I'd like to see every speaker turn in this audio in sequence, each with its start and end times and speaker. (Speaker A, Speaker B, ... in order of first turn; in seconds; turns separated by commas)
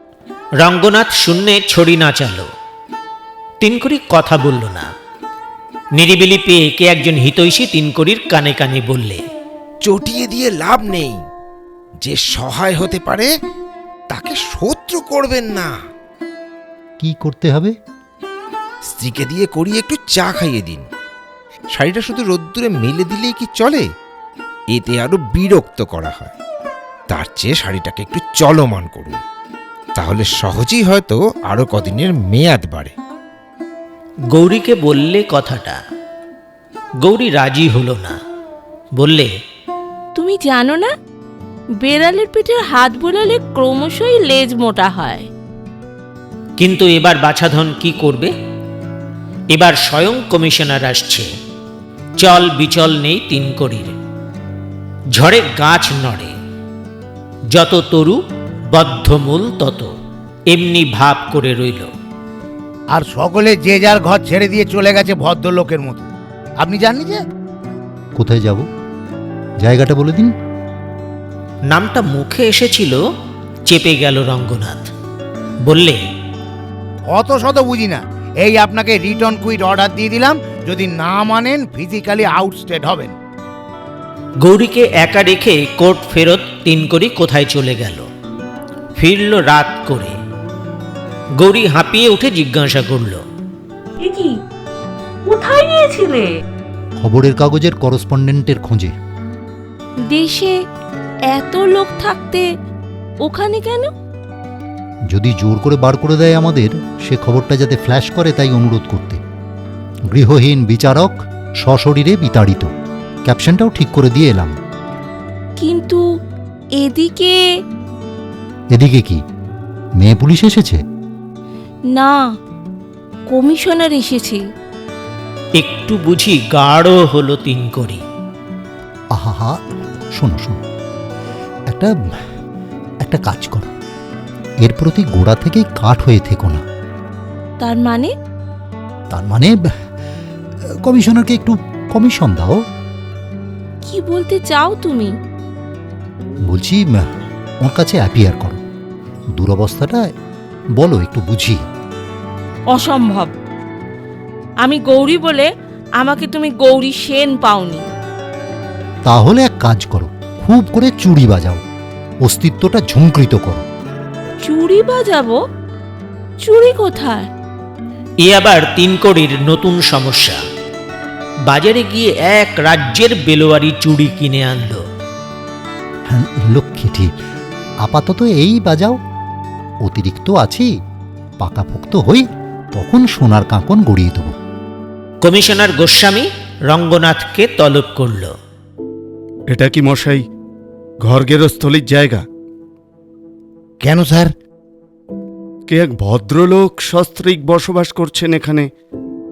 Speaker A: 0.6-2.5, Speaker A: 3.6-4.9, Speaker A: 6.0-9.2, Speaker B: 9.8-11.2, Speaker B: 12.0-13.3, Speaker B: 14.1-15.8, Speaker C: 17.0-17.7, Speaker B: 18.9-20.9, Speaker B: 21.7-23.9, Speaker B: 24.7-26.3, Speaker B: 27.1-29.2, Speaker B: 29.9-32.9, Speaker A: 34.3-35.8, Speaker A: 37.0-38.2, Speaker A: 39.0-39.3, Speaker D: 40.1-40.9, Speaker D: 41.8-45.3, Speaker A: 46.6-48.3, Speaker A: 49.5-51.3, Speaker A: 52.2-53.9, Speaker A: 55.1-56.3, Speaker A: 57.5-58.2, Speaker A: 58.7-59.9, Speaker A: 60.5-61.9, Speaker E: 62.9-66.1, Speaker E: 66.6-67.2, Speaker C: 68.2-68.7, Speaker C: 69.6-70.3, Speaker A: 71.7-73.0, Speaker A: 73.7-74.9, Speaker A: 75.6-76.0, Speaker E: 77.0-83.1, Speaker A: 84.4-88.1, Speaker A: 89.0-90.2, Speaker A: 91.4-93.2, Speaker D: 94.0-94.4, Speaker D: 95.2-96.3, Speaker C: 97.0-98.9, Speaker D: 100.1-100.6, Speaker D: 101.3-102.5, Speaker D: 103.2-103.9, Speaker C: 105.1-109.2, Speaker C: 110.1-112.7, Speaker C: 113.2-114.5, Speaker D: 115.6-116.0, Speaker D: 116.8-117.4, Speaker C: 118.7-119.2, Speaker C: 120.0-120.8, Speaker D: 121.9-122.2, Speaker D: 123.3-124.4, Speaker A: 125.6-128.0, Speaker C: 129.1-129.6, Speaker C: 130.1-130.6, Speaker C: 133.0-133.7, Speaker C: 134.6-136.6, Speaker D: 137.6-138.1, Speaker C: 139.1-139.6, Speaker C: 140.8-142.6, Speaker D: 143.8-145.1, Speaker C: 146.5-147.1, Speaker C: 147.6-148.6, Speaker C: 149.3-150.0, Speaker C: 150.7-151.6, Speaker D: 152.7-153.3, Speaker D: 154.6-157.8, Speaker C: 159.1-161.6, Speaker C: 162.2-163.6, Speaker D: 164.4-165.4, Speaker D: 166.4-167.3, Speaker A: 168.2-170.4, Speaker A: 171.4-174.8, Speaker C: 176.1-177.1, Speaker C: 177.8-179.0, Speaker C: 179.8-180.7, Speaker C: 181.4-184.3, Speaker A: 185.2-188.3, Speaker F: 189.5-190.2, Speaker F: 191.0-192.2, Speaker E: 193.8-194.3, Speaker F: 195.7-198.7